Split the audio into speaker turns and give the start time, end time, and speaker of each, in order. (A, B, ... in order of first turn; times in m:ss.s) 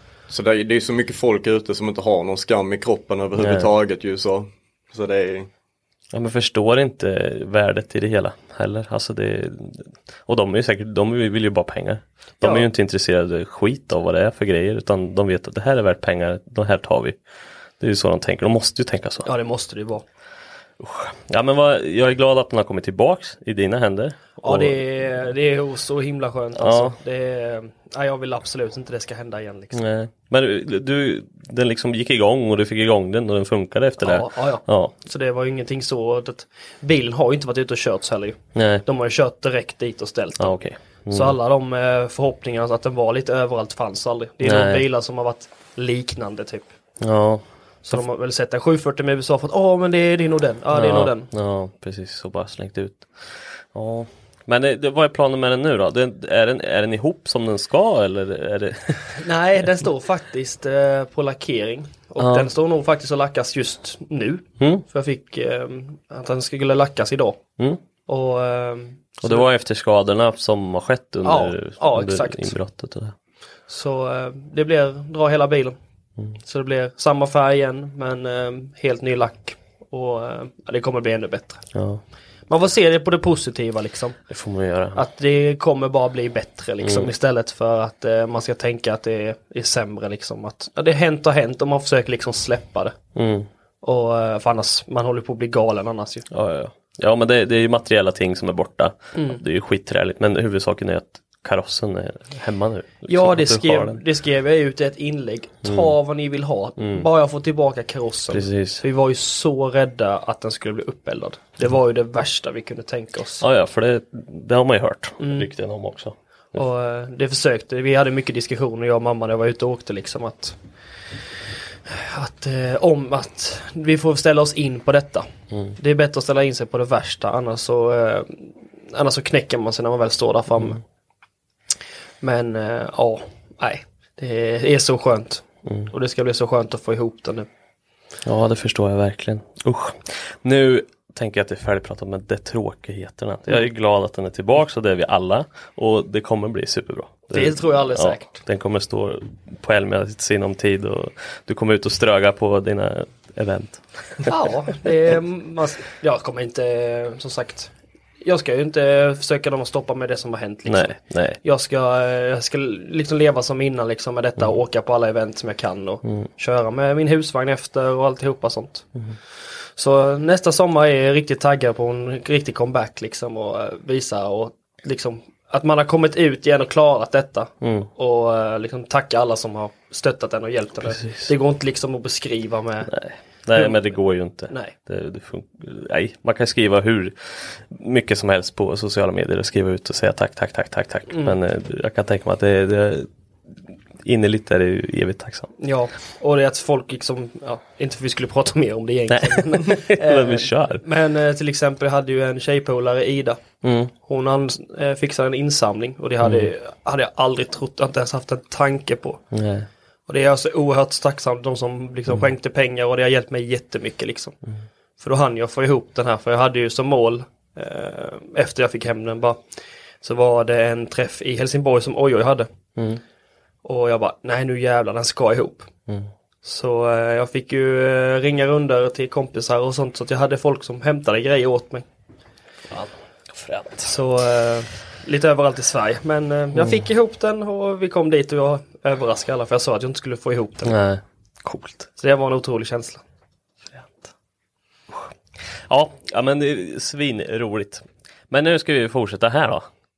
0:00.3-0:05.5 A
0:03.4-0:03.7 B
0:06.1-0:17.2 B
0:12.4-0:12.7 C
0:17.8-0:19.3 B
0:19.2-0:20.0 C
0:20.8-0:24.8 B
0:24.4-0:29.8 C
0:26.6-0:27.0 B
0:29.7-0:35.0 B
0:34.0-0:40.6 C
0:38.5-0:38.8 B
0:40.4-0:41.4 B
0:41.1-0:46.7 C
0:44.4-0:44.8 B
0:47.0-0:48.0 B
0:47.8-0:51.3 C
0:50.7-0:59.2 B
0:59.2-1:07.4 C
1:02.2-1:02.5 B
1:04.6-1:04.8 B
1:08.1-1:09.4 C
1:09.2-1:13.1 B
1:11.2-1:12.6 C
1:13.7-1:15.8 C
1:16.4-1:21.6 C
1:21.7-1:22.0 B
1:22.5-1:24.2 C
1:24.3-1:25.0 B
1:24.9-1:32.9 C
1:26.8-1:27.1 B
1:33.1-1:33.5 B
1:33.8-1:36.2 C
1:36.3-1:44.0 B
1:43.1-1:53.4 C
1:45.6-1:45.9 B
1:46.8-1:47.1 B
1:48.3-1:48.8 B
1:53.4-1:56.6 B
1:55.2-1:55.5 C
1:56.5-2:00.6 C
2:01.9-2:10.8 C
2:12.2-2:17.5 C
2:15.6-2:15.9 B
2:18.2-2:34.3 B
2:27.3-2:28.3 C
2:34.2-2:48.8 C
2:40.7-2:41.4 B
2:49.8-3:02.9 C
2:57.6-2:57.9 B
3:00.8-3:01.3 B
3:02.9-3:13.1 B
3:03.5-3:03.8 C
3:11.1-3:11.4 C
3:14.0-3:15.5 B
3:15.6-3:23.4 C
3:19.1-3:20.8 B
3:23.6-3:23.9 B
3:24.0-3:29.2 C
3:26.2-3:26.5 B
3:29.3-3:29.7 B
3:30.1-3:34.4 C
3:35.0-3:39.4 C
3:40.0-3:42.5 C
3:42.8-3:43.0 B
3:43.6-3:45.7 C
3:46.4-3:51.8 C
3:52.7-3:53.9 B
3:53.8-4:00.7 C
3:56.5-3:56.8 B
4:00.6-4:01.9 B
4:02.0-4:03.0 C
4:03.7-4:04.1 B
4:05.7-4:09.6 B